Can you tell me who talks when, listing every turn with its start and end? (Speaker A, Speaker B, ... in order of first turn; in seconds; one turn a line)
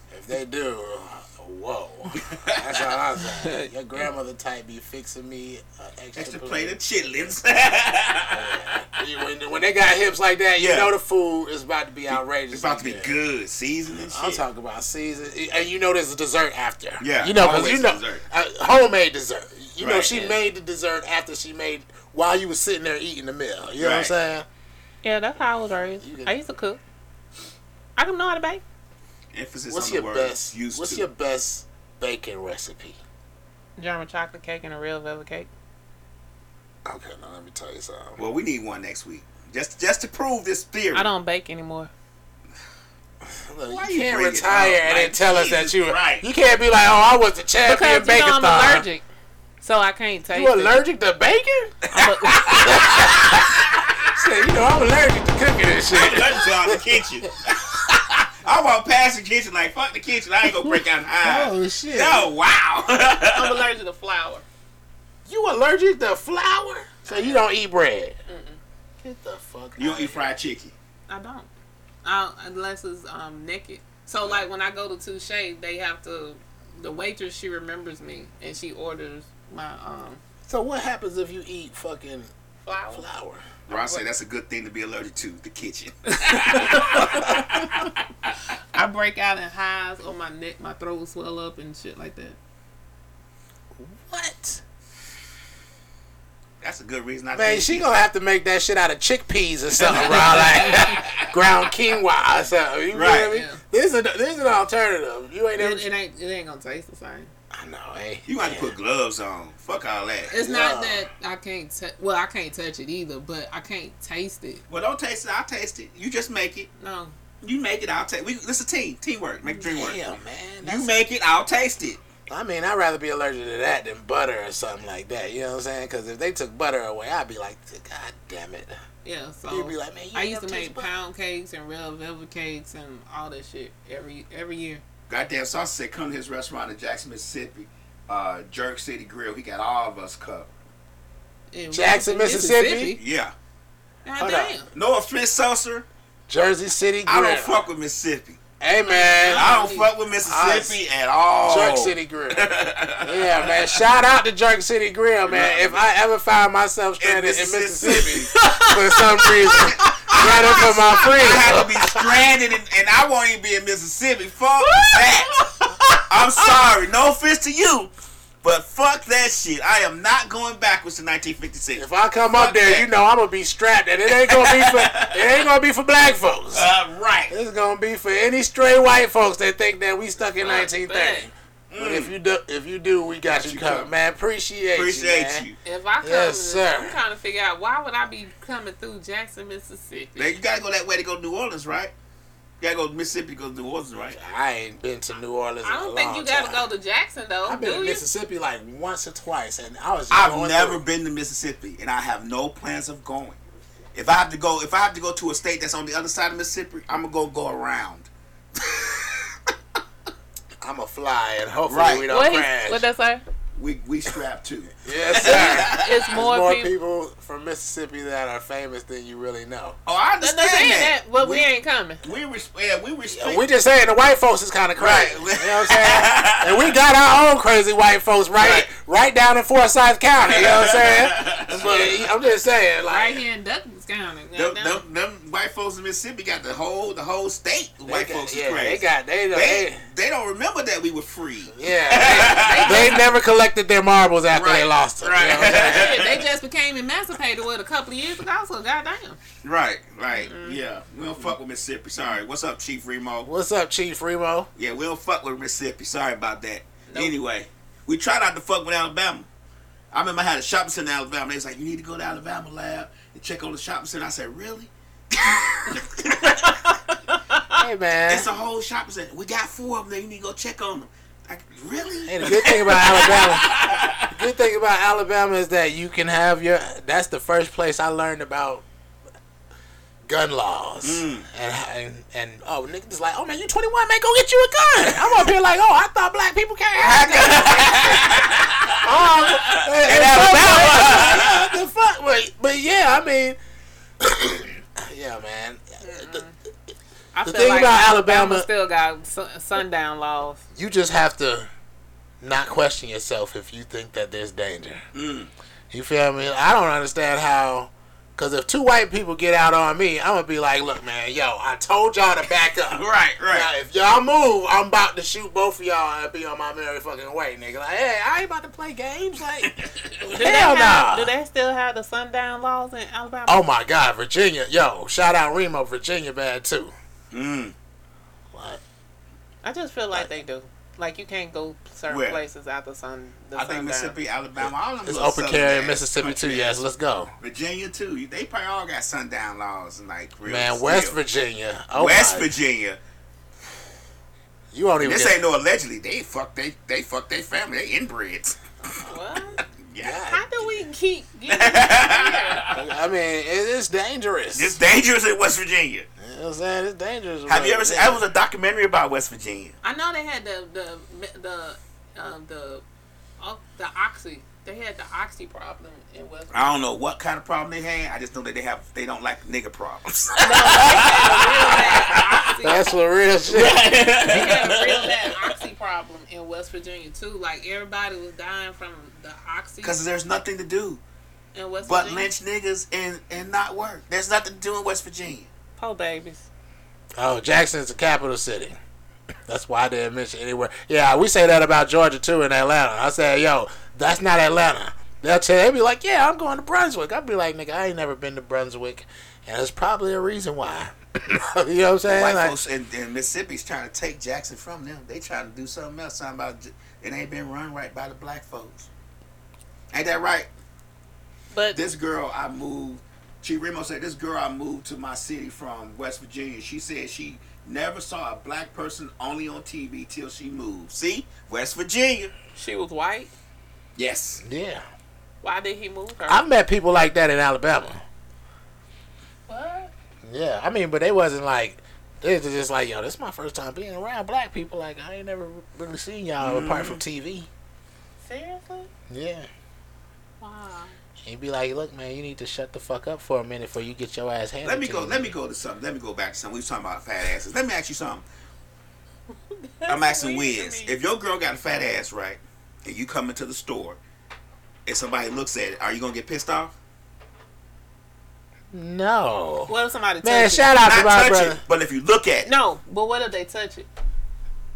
Speaker A: 0.1-6.8
Speaker B: 2.2-2.7
Speaker C: 3.2-3.7
Speaker B: 6.2-8.6
Speaker A: 8.3-13.2
Speaker B: 10.6-10.9
Speaker B: 12.1-14.4
Speaker A: 14.1-24.5
Speaker B: 17.0-18.2
Speaker B: 19.8-20.4
Speaker B: 23.8-24.1
Speaker C: 25.0-26.8
Speaker A: 25.8-26.4
Speaker C: 28.0-28.6
Speaker B: 29.3-31.1
Speaker A: 29.7-33.0
Speaker C: 33.8-35.5
Speaker A: 36.9-38.2
Speaker B: 38.2-41.1
Speaker C: 40.9-41.9
Speaker A: 43.2-48.9
Speaker B: 43.7-46.3
Speaker C: 47.6-49.0
Speaker C: 49.6-50.8
Speaker A: 50.3-53.6
Speaker C: 51.9-52.9
Speaker B: 52.0-54.1
Speaker A: 54.1-57.3
Speaker B: 55.9-63.6
Speaker A: 60.5-62.3
Speaker C: 63.2-64.4
Speaker A: 65.3-68.2
Speaker C: 67.0-67.5
Speaker C: 68.3-68.6
Speaker A: 69.0-70.3
Speaker B: 69.8-70.7
Speaker C: 71.1-71.5
Speaker C: 72.0-80.2
Speaker A: 80.5-82.3
Speaker C: 82.6-83.1
Speaker A: 82.9-83.5
Speaker B: 83.7-88.3
Speaker C: 83.7-84.0
Speaker C: 86.1-87.9
Speaker A: 87.0-87.4
Speaker C: 88.7-92.4
Speaker A: 93.8-94.6
Speaker B: 96.6-97.9
Speaker A: 97.3-105.9
Speaker B: 99.8-101.3
Speaker B: 102.9-103.4
Speaker C: 103.3-103.6
Speaker C: 105.6-107.3
Speaker A: 107.5-108.7
Speaker B: 108.3-110.3
Speaker C: 110.3-114.6
Speaker A: 110.3-111.1
Speaker B: 114.7-116.7
Speaker C: 116.8-117.1
Speaker B: 117.4-120.0
Speaker A: 119.6-121.1
Speaker B: 120.6-122.0
Speaker A: 122.3-128.7
Speaker C: 129.0-134.8
Speaker A: 129.5-130.9
Speaker B: 135.1-140.5
Speaker C: 141.5-143.0
Speaker A: 141.7-143.0
Speaker B: 143.0-143.3
Speaker C: 144.1-144.7
Speaker A: 144.2-144.6
Speaker B: 144.7-145.9
Speaker A: 146.3-147.6
Speaker B: 147.1-148.4
Speaker A: 148.6-149.5
Speaker C: 148.9-149.9
Speaker B: 149.3-153.8
Speaker A: 150.2-150.8
Speaker A: 151.4-162.2
Speaker B: 155.3-155.8
Speaker B: 157.0-158.6
Speaker B: 159.4-165.5
Speaker C: 164.7-166.0
Speaker B: 166.1-167.9
Speaker B: 168.4-172.9
Speaker A: 171.8-176.7
Speaker B: 174.1-175.4
Speaker B: 176.5-177.3
Speaker A: 177.3-185.5
Speaker C: 180.4-181.3
Speaker B: 181.7-182.1
Speaker B: 183.3-183.9
Speaker B: 184.7-185.6
Speaker C: 185.6-190.3
Speaker A: 186.0-187.0
Speaker B: 190.2-191.9
Speaker B: 192.6-194.2
Speaker A: 194.1-196.7
Speaker C: 195.6-198.0
Speaker A: 197.4-200.8
Speaker B: 200.1-203.4
Speaker B: 203.9-209.3
Speaker A: 210.6-212.9
Speaker B: 211.7-212.1
Speaker C: 212.1-213.2
Speaker B: 213.6-216.1
Speaker A: 214.8-219.8
Speaker C: 215.2-216.7
Speaker B: 219.8-221.5
Speaker C: 220.2-222.0
Speaker B: 222.0-223.4
Speaker A: 223.1-233.2
Speaker B: 224.8-226.7
Speaker B: 228.4-228.7
Speaker B: 230.2-232.1
Speaker C: 231.6-231.9
Speaker C: 232.9-234.8
Speaker B: 234.3-243.0
Speaker A: 237.9-239.8
Speaker A: 241.5-246.1
Speaker C: 242.0-243.0
Speaker B: 244.3-246.2
Speaker C: 245.4-249.2
Speaker B: 249.4-253.3
Speaker C: 250.1-250.6
Speaker A: 253.2-254.5
Speaker B: 254.6-259.3
Speaker C: 256.9-257.1
Speaker B: 259.9-266.6
Speaker C: 265.7-267.6
Speaker A: 267.5-268.3
Speaker B: 268.1-274.2
Speaker A: 272.1-278.6
Speaker A: 280.1-293.4
Speaker B: 280.8-281.3
Speaker B: 286.8-291.5
Speaker A: 294.0-296.2
Speaker C: 295.8-296.3
Speaker C: 297.1-300.4
Speaker A: 297.2-298.5
Speaker A: 300.6-301.5
Speaker A: 302.2-304.8
Speaker B: 304.9-305.3
Speaker A: 305.7-321.1
Speaker B: 312.7-313.5
Speaker B: 319.4-319.9
Speaker C: 320.1-323.4
Speaker A: 323.3-326.7
Speaker B: 327.1-327.5
Speaker A: 328.3-328.6
Speaker C: 329.4-334.0
Speaker B: 331.9-332.2
Speaker B: 333.4-336.6
Speaker A: 334.4-337.1
Speaker B: 337.2-341.0
Speaker A: 340.2-342.3
Speaker B: 341.8-342.8
Speaker A: 344.5-345.2
Speaker B: 344.8-348.4
Speaker C: 348.8-349.4
Speaker B: 349.5-350.0
Speaker A: 349.8-350.5
Speaker C: 350.1-352.5
Speaker B: 351.3-352.6
Speaker A: 352.5-354.6
Speaker B: 354.3-355.9
Speaker A: 356.0-358.0
Speaker B: 357.3-359.6
Speaker C: 359.6-362.6
Speaker C: 363.2-366.4
Speaker B: 366.3-372.2
Speaker C: 370.2-372.7
Speaker A: 372.4-373.7
Speaker B: 373.3-375.2
Speaker C: 374.0-379.8
Speaker B: 379.6-380.8
Speaker C: 381.3-382.1
Speaker B: 381.6-385.3
Speaker C: 385.6-386.3
Speaker A: 387.0-388.6
Speaker A: 389.3-402.4
Speaker B: 401.9-408.7
Speaker B: 409.7-410.3
Speaker C: 411.3-411.6
Speaker B: 411.5-422.1
Speaker C: 422.3-423.1
Speaker B: 423.8-424.2
Speaker A: 424.2-424.6
Speaker C: 425.2-426.2
Speaker A: 426.1-427.8
Speaker C: 429.3-429.7
Speaker A: 430.0-437.3
Speaker B: 436.2-436.8
Speaker C: 438.0-438.7
Speaker A: 438.9-439.3
Speaker C: 440.2-440.8
Speaker A: 441.0-445.1
Speaker B: 444.4-448.0
Speaker C: 449.3-450.7
Speaker B: 449.7-453.8
Speaker B: 454.7-456.5
Speaker A: 458.5-461.4
Speaker C: 459.5-460.6
Speaker B: 460.6-462.3
Speaker C: 462.2-463.7